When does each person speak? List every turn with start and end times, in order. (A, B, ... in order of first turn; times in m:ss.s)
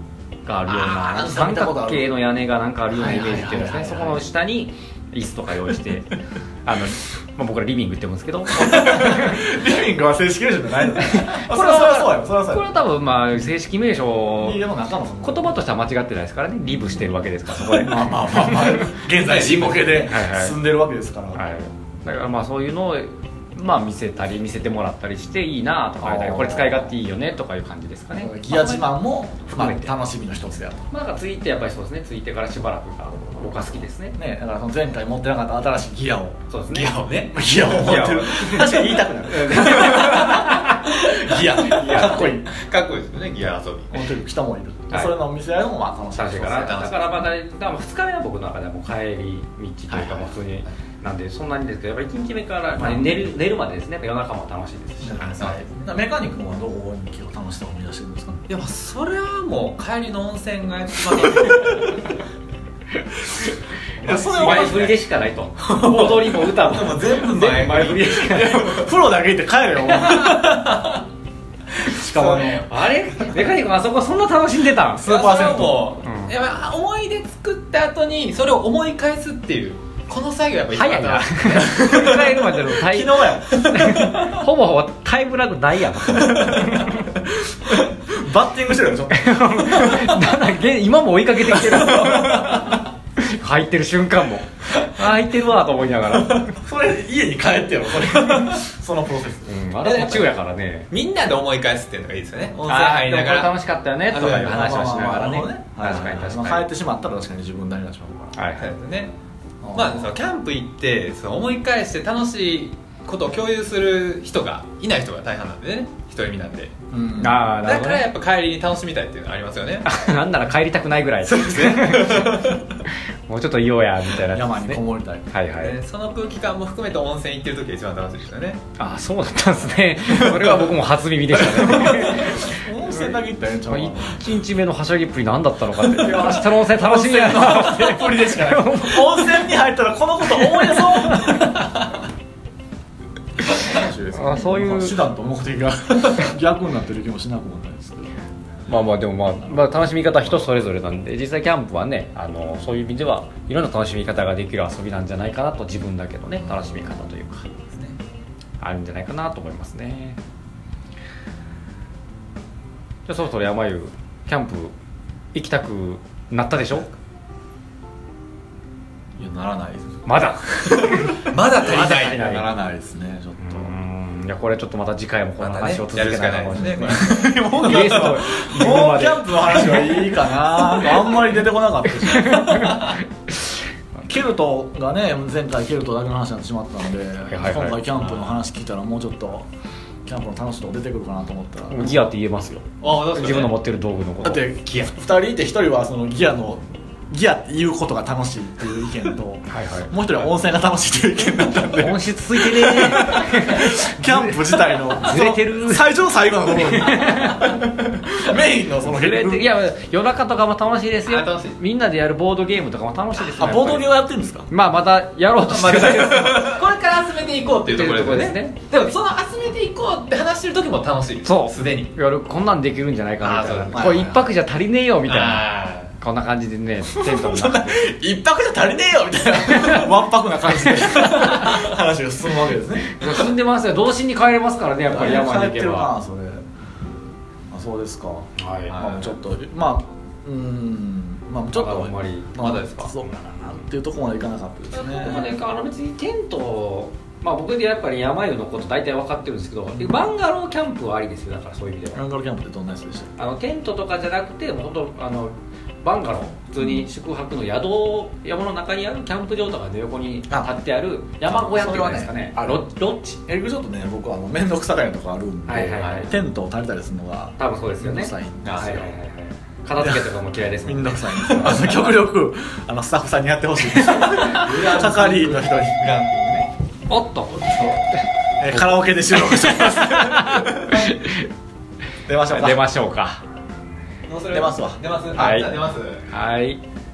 0:00.4-0:09.4 A
0:00.7-0:02.1 B
0:02.9-0:04.2 B
0:08.6-0:12.7 B
0:11.0-0:14.6 A
0:14.4-0:15.6 B
0:15.2-0:18.6 A
0:17.7-0:21.4 B
0:19.2-0:20.0 C
0:20.0-0:20.6 A
0:21.4-0:28.9 A
0:26.0-0:26.9 B
0:28.2-0:30.8 B
0:29.5-0:29.9 A
0:30.9-0:34.2 A
0:34.2-0:36.4 B
0:36.5-0:37.0 A
0:36.7-0:37.4 C
0:37.3-0:42.5 B
0:37.6-0:42.4 A
0:41.9-0:44.0 C
0:43.9-0:46.9 B
0:44.9-0:45.2 A
0:46.2-0:55.6 A
0:46.5-0:47.2 C
0:49.9-0:50.3 B
0:52.8-0:53.2 B
0:55.0-0:58.5 B
0:55.2-0:55.6 C
0:58.5-1:02.1 C
1:01.1-1:02.0 B
1:04.0-1:04.9 C
1:04.0-1:05.0 B
1:04.1-1:08.6 A
1:05.6-1:08.9 C
1:08.0-1:10.9 B
1:09.9-1:10.4 A
1:10.0-1:11.0 C
1:11.8-1:12.7 B
1:11.8-1:13.5 C
1:12.6-1:15.4 A
1:15.0-1:22.4 C
1:15.1-1:15.9 B
1:16.0-1:16.4 A
1:20.7-1:27.1 A
1:21.7-1:23.8 B
1:23.5-1:24.2 C
1:26.2-1:26.8 C
1:28.1-1:30.2 B
1:29.1-1:36.5 A
1:31.7-1:32.8 B
1:36.6-1:39.6 B
1:39.5-1:40.9 A
1:39.8-1:40.4 C
1:40.9-1:43.5 C
1:42.7-1:46.7 A
1:44.1-1:44.9 C
1:44.2-1:48.4 B
1:48.4-1:48.8 A
1:48.6-1:49.1 C
1:49.6-1:50.1 B
1:49.7-1:56.7 C
1:56.9-1:57.5 B
1:57.2-1:58.1 A
1:57.6-2:00.0 C
1:59.8-2:05.8 A
2:01.3-2:02.8 C
2:04.3-2:05.3 B
2:05.6-2:08.6 C
2:08.8-2:13.1 A
2:10.1-2:10.7 C
2:11.4-2:12.1 C
2:11.8-2:14.3 B
2:13.7-2:19.4 A
2:15.8-2:21.7 B
2:20.4-2:21.7 A
2:23.5-2:28.2 B
2:24.1-2:25.0 A
2:28.7-2:37.5 A
2:36.4-2:37.0 B
2:37.7-2:38.0 C
2:38.6-2:40.2 A
2:43.1-2:44.7 A
2:45.3-2:46.9 A
2:49.2-2:50.0 B
2:50.1-2:52.5 A
2:50.6-2:53.7 B
2:50.9-2:52.2 C
2:53.4-3:01.2 A
2:55.4-2:58.5 C
2:56.9-3:02.9 B
3:02.0-3:03.0 A
3:04.1-3:09.5 B
3:07.3-3:07.8 A
3:08.1-3:08.3 C
3:10.0-3:12.1 B
3:11.7-3:14.5 A
3:12.8-3:13.6 C
3:14.2-3:29.4 B
3:19.5-3:20.0 A
3:21.7-3:25.9 A
3:26.5-3:27.6 A
3:28.8-3:36.6 A
3:31.1-3:31.6 C
3:33.4-3:34.5 B
3:35.4-3:41.9 C
3:37.7-3:38.6 A
3:41.2-3:47.9 A
3:43.2-3:44.1 C
3:43.7-3:44.2 B
3:45.1-3:45.9 C
3:46.9-3:53.0 B
3:49.5-3:49.9 A
3:50.9-3:51.7 C
3:51.1-3:51.3 A
3:52.9-3:55.9 A
3:54.9-3:56.4 B
3:57.5-4:05.3 B
3:58.4-3:59.1 A
3:58.7-3:59.0 C
4:01.5-4:02.9 A
4:02.4-4:02.8 C
4:04.7-4:12.0 A
4:11.9-4:13.1 B
4:13.2-4:23.2 A
4:16.6-4:16.9 B
4:20.3-4:20.5 B
4:21.3-4:22.7 B
4:23.3-4:28.5 B
4:25.5-4:26.2 A
4:25.8-4:26.1 C
4:27.4-4:31.8 A
4:28.4-4:28.9 C
4:29.8-4:30.1 B
4:30.6-4:35.9 B
4:33.8-4:36.5 C
4:36.9-4:38.0 A
4:37.5-4:37.8 B
4:38.4-4:40.9 B
4:38.5-4:41.3 A
4:42.1-4:42.6 B
4:42.2-4:43.2 A
4:44.1-4:46.0 C
4:44.3-4:44.8 B
4:45.1-4:45.5 A
4:46.1-4:46.6 A